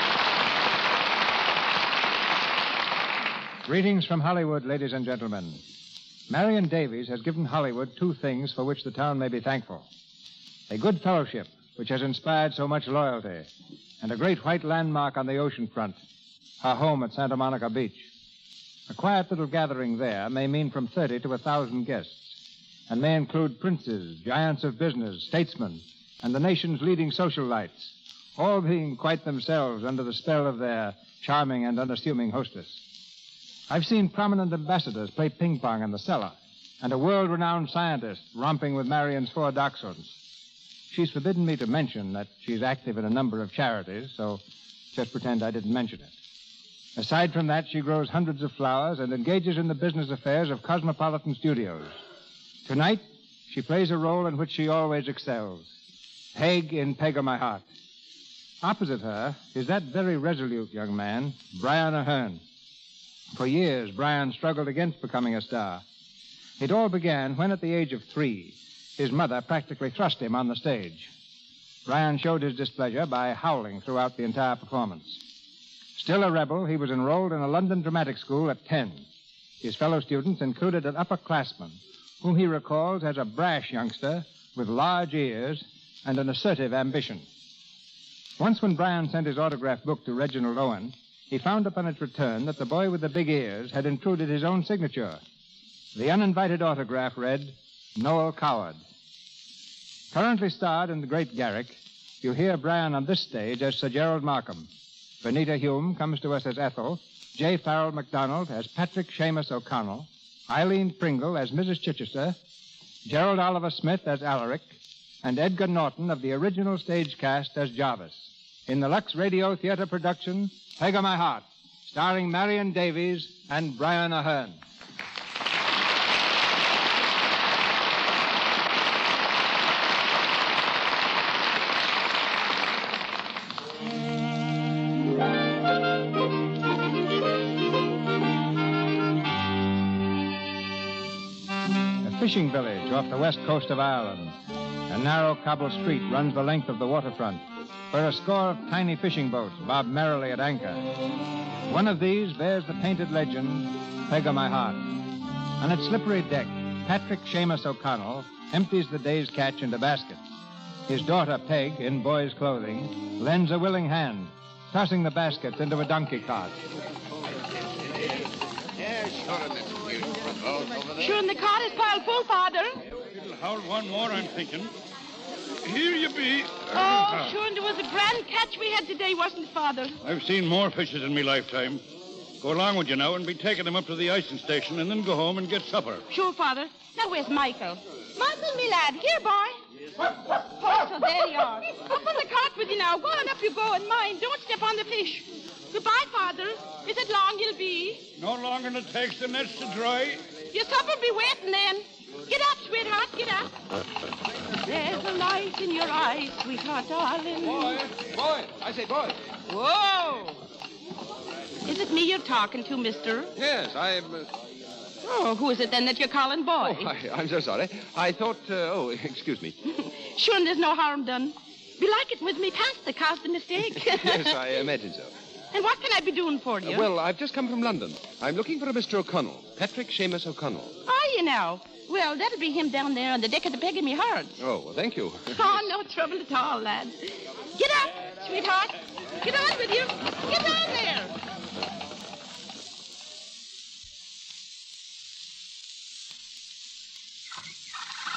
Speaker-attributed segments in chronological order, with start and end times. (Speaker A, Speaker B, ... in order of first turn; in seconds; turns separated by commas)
Speaker A: 3.6-5.6, Speaker A: 6.3-9.9, Speaker A: 10.7-13.5, Speaker A: 14.0-16.0, Speaker A: 16.6-18.1, Speaker A: 18.9-22.4, Speaker A: 22.9-32.8, Speaker A: 33.7-40.1, Speaker A: 40.9-44.4, Speaker A: 44.9-46.1, Speaker A: 47.0-52.0, Speaker A: 52.6-55.7, Speaker A: 56.3-57.7, Speaker A: 58.6-62.4, Speaker A: 63.3-65.8, Speaker A: 66.6-71.1, Speaker A: 71.8-75.2, Speaker A: 76.0-79.0, Speaker A: 79.6-87.3, Speaker A: 88.4-95.2, Speaker A: 95.9-98.8, Speaker A: 100.1-104.7, Speaker A: 105.2-112.3, Speaker A: 113.0-124.6, Speaker A: 142.0-144.3, Speaker A: 144.9-150.9, Speaker A: 151.7-154.9, Speaker A: 155.6-160.2, Speaker A: 160.9-166.6, Speaker B: 168.8-171.2, Speaker C: 171.0-172.8, Speaker D: 173.1-174.7, Speaker D: 175.6-177.3, Speaker C: 176.7-179.9, Speaker D: 180.0-181.8, Speaker D: 182.4-186.0, Speaker C: 186.1-189.6, Speaker C: 190.5-198.0, Speaker D: 198.2-200.2, Speaker C: 200.5-203.5, Speaker C: 204.6-207.8, Speaker E: 207.4-209.2, Speaker C: 209.5-210.4, Speaker C: 211.6-213.3, Speaker E: 213.3-214.3, Speaker C: 215.0-216.9, Speaker E: 216.6-219.5, Speaker C: 219.8-224.4, Speaker E: 223.7-225.1, Speaker C: 225.5-226.9, Speaker E: 226.6-230.8, Speaker C: 230.8-234.4, Speaker E: 234.4-235.6, Speaker C: 235.3-241.2